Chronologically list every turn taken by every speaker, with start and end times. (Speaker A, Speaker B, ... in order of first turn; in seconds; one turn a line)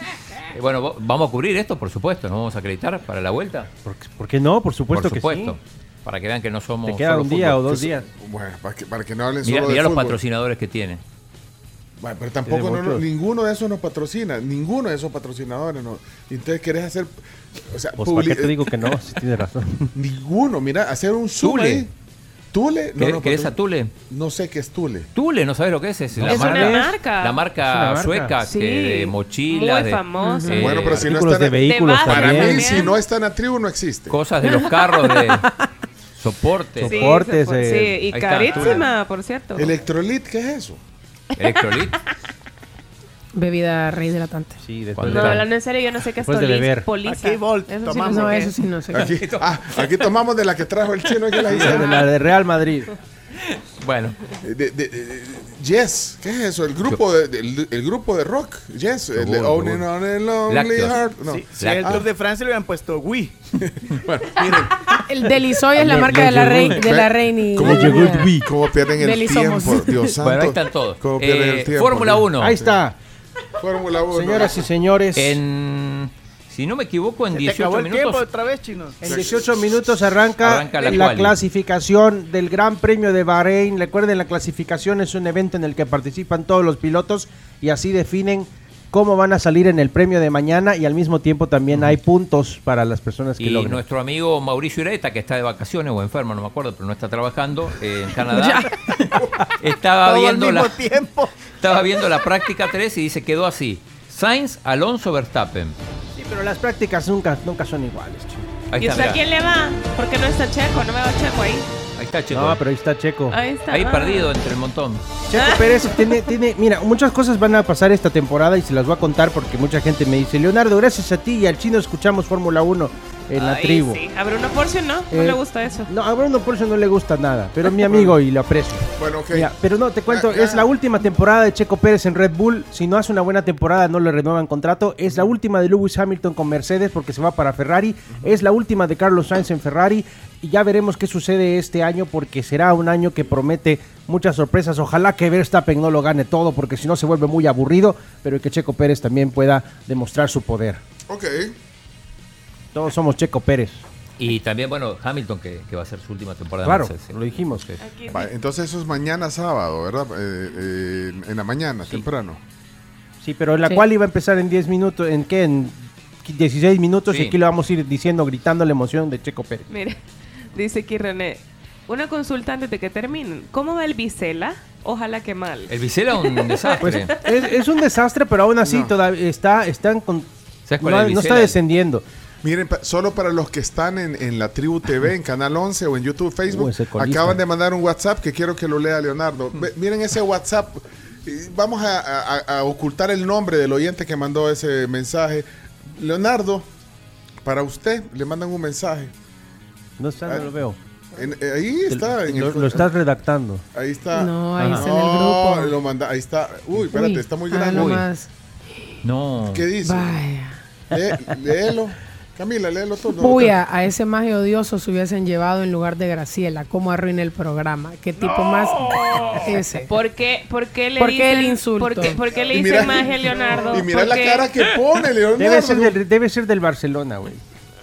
Speaker A: 0.5-3.7
Speaker B: 3.8-5.6
Speaker A: 4.9-7.7
Speaker B: 6.8-8.1
Speaker C: 7.8-10.2
Speaker A: 9.4-11.0
Speaker C: 12.0-17.1
Speaker B: 12.5-13.1
Speaker C: 17.7-18.6
Speaker B: 18.0-19.9
Speaker C: 19.9-21.9
Speaker A: 21.4-21.9
Speaker C: 22.5-23.5
Speaker A: 23.0-23.9
Speaker C: 24.1-25.1
Speaker A: 25.1-31.1
Speaker B: 26.1-27.0
Speaker D: 26.3-27.5
Speaker B: 27.6-28.4
Speaker D: 28.4-30.6
Speaker E: 30.2-30.6
Speaker C: 30.5-34.2
Speaker B: 30.8-32.7
Speaker D: 31.6-33.0
Speaker A: 34.1-35.5
Speaker A: 36.1-37.1
Speaker B: 36.8-38.0
Speaker D: 36.8-39.8
Speaker A: 38.1-38.9
Speaker C: 39.5-40.8
Speaker A: 41.4-42.0
Speaker E: 43.3-44.6
Speaker B: 44.6-45.5
Speaker A: 45.0-45.5
Speaker D: 45.1-48.5
Speaker B: 46.2-46.9
Speaker F: 47.0-48.1
Speaker E: 47.6-49.2
Speaker C: 48.9-52.0
Speaker A: 49.1-50.1
Speaker B: 51.5-52.9
Speaker A: 53.4-54.2
Speaker C: 54.4-62.0
Speaker A: 59.1-59.9
Speaker A: 60.5-62.0
Speaker F: 61.2-63.4
Speaker C: 63.6-65.0
Speaker E: 65.0-68.3
Speaker B: 65.8-66.9
Speaker C: 66.7-72.8
Speaker B: 67.6-68.5
Speaker E: 69.0-70.1
Speaker A: 70.2-72.5
Speaker B: 72.4-72.9
Speaker C: 73.6-74.7
Speaker B: 74.1-75.4
Speaker A: 75.1-78.3
Speaker F: 77.3-79.0
Speaker C: 79.0-80.0
Speaker B: 79.0-93.8
Speaker A: 80.4-81.4
Speaker A: 93.4-100.8
Speaker F: 100.0-101.3
Speaker A: 101.6-105.8
Speaker B: 106.2-108.4
Speaker A: 108.7-109.2
Speaker D: 108.8-111.7
Speaker A: 112.0-112.6
Speaker B: 112.3-113.4
Speaker D: 113.3-114.3
Speaker A: 113.7-115.0
Speaker B: 115.3-124.0
Speaker D: 115.3-116.1
Speaker D: 123.3-125.9
Speaker B: 125.1-150.8
Speaker C: 127.9-128.2
Speaker C: 128.9-129.5
Speaker C: 130.1-130.7
Speaker C: 151.1-151.5
Speaker B: 152.7-153.8
Speaker A: 154.2-157.8
Speaker B: 156.6-157.7
Speaker D: 157.8-158.3
Speaker C: 158.1-162.4
Speaker B: 163.2-169.7
Speaker A: 167.1-167.4
Speaker D: 169.7-170.0
Speaker D: 170.5-177.0
Speaker A: 175.7-177.1
Speaker B: 176.8-182.0
Speaker C: 178.6-178.9
Speaker A: 180.7-181.6
Speaker C: 182.4-196.7
Speaker B: 186.5-187.4
Speaker C: 197.4-199.1
Speaker B: 200.0-200.8
Speaker C: 201.1-202.9
Speaker B: 201.9-203.6
Speaker C: 203.7-208.0
Speaker E: 204.2-205.7
Speaker B: 204.6-204.8
Speaker E: 206.9-208.3
Speaker A: 207.7-208.0
Speaker A: 209.0-209.7
Speaker C: 209.4-210.2
Speaker E: 209.8-210.6
Speaker C: 210.9-213.6
Speaker E: 213.2-219.9
Speaker D: 218.6-224.5
Speaker E: 221.0-222.2
Speaker C: 222.4-226.0
Speaker B: 225.3-227.4